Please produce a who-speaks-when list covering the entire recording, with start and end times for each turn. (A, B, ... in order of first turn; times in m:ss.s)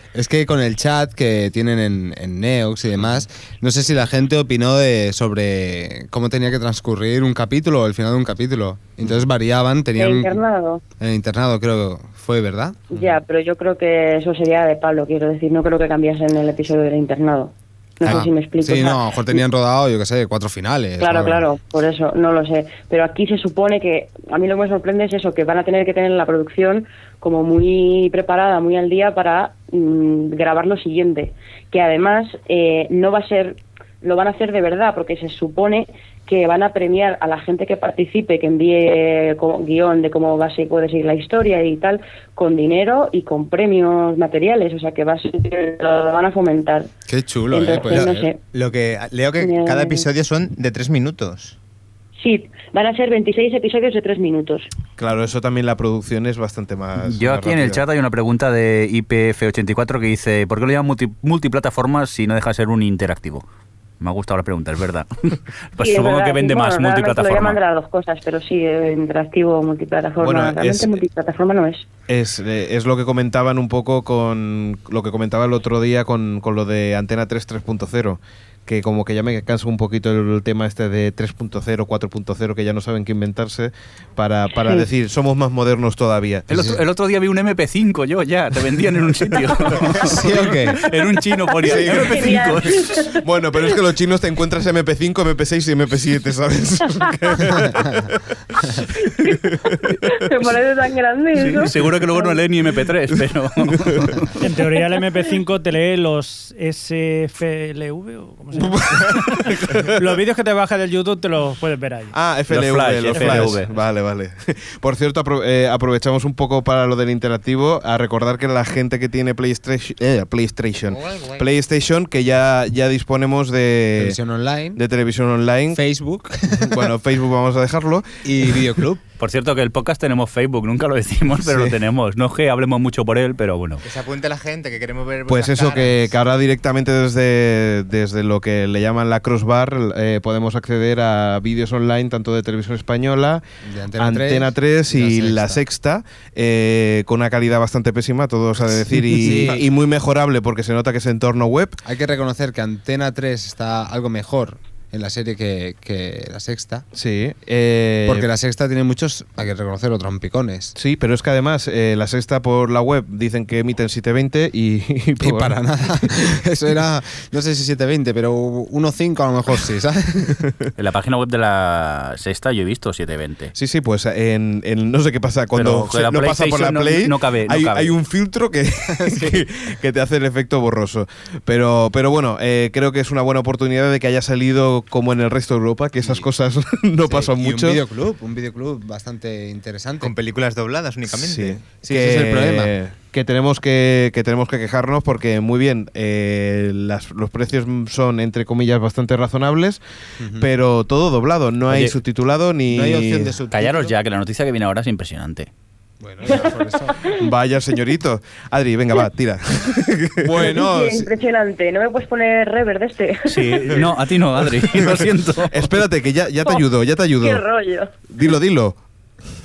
0:00.1-0:10.4 A
0:10.0-0:10.8 B
0:11.0-0:12.8 A
0:12.9-0:19.4 B
0:18.0-0:21.5 A
0:21.0-0:46.9 B
0:47.1-0:48.3 A
0:47.5-0:48.4 B
0:47.9-0:51.6 C
0:49.4-0:50.1 B
0:52.2-0:54.7 B
0:55.0-0:57.8 D
0:57.0-1:03.4 E
1:04.0-1:07.6 E
1:05.8-1:11.9 B
1:10.2-1:11.0 D
1:12.1-1:26.5 D
1:26.5-1:32.9 E
1:26.5-1:26.8 A
1:30.0-1:30.8 A
1:31.5-1:33.2 B
1:31.9-1:32.2 D
1:33.2-1:40.0 D
1:39.0-1:39.4 B
1:40.0-1:42.4 B
1:41.4-1:44.3 E
1:43.6-1:44.3 D
1:44.4-1:52.1 F
1:48.6-1:50.0 D
1:52.1-2:04.2 D
1:52.5-1:53.7 E
1:53.1-1:53.5 F
2:00.9-2:01.4 C
2:04.0-2:04.8 A
2:04.8-2:05.8 D
2:05.7-2:06.8 A
2:06.6-2:08.6 D
2:08.2-2:09.0 A
2:09.2-2:13.8 E
2:11.4-2:11.8 D
2:13.8-2:16.1 C
2:15.3-2:23.4 D
2:23.6-2:25.6 A
2:24.0-2:31.8 D
2:28.6-2:29.7 A
2:31.8-2:36.9 A
2:36.9-2:38.3 D
2:38.1-2:40.7 A
2:40.8-2:45.5 D
2:45.2-2:50.4 A
2:50.8-2:53.5 E
2:53.6-3:07.8 D
2:55.5-2:57.9 E
2:59.1-2:59.4 A
3:07.0-3:10.1 A
3:10.0-3:11.7 C
3:11.1-3:19.8 D
3:11.8-3:12.7 A
3:20.4-3:23.4 D
3:21.7-3:22.0 E
3:22.7-3:23.9 A
3:23.5-3:25.5 E
3:26.0-3:27.0 A
3:27.1-3:30.6 D
3:30.2-3:31.1 A
3:30.4-3:33.7 B
3:33.3-3:35.8 E
3:34.4-3:37.4 D
3:37.2-3:37.9 B
3:38.1-3:38.8 D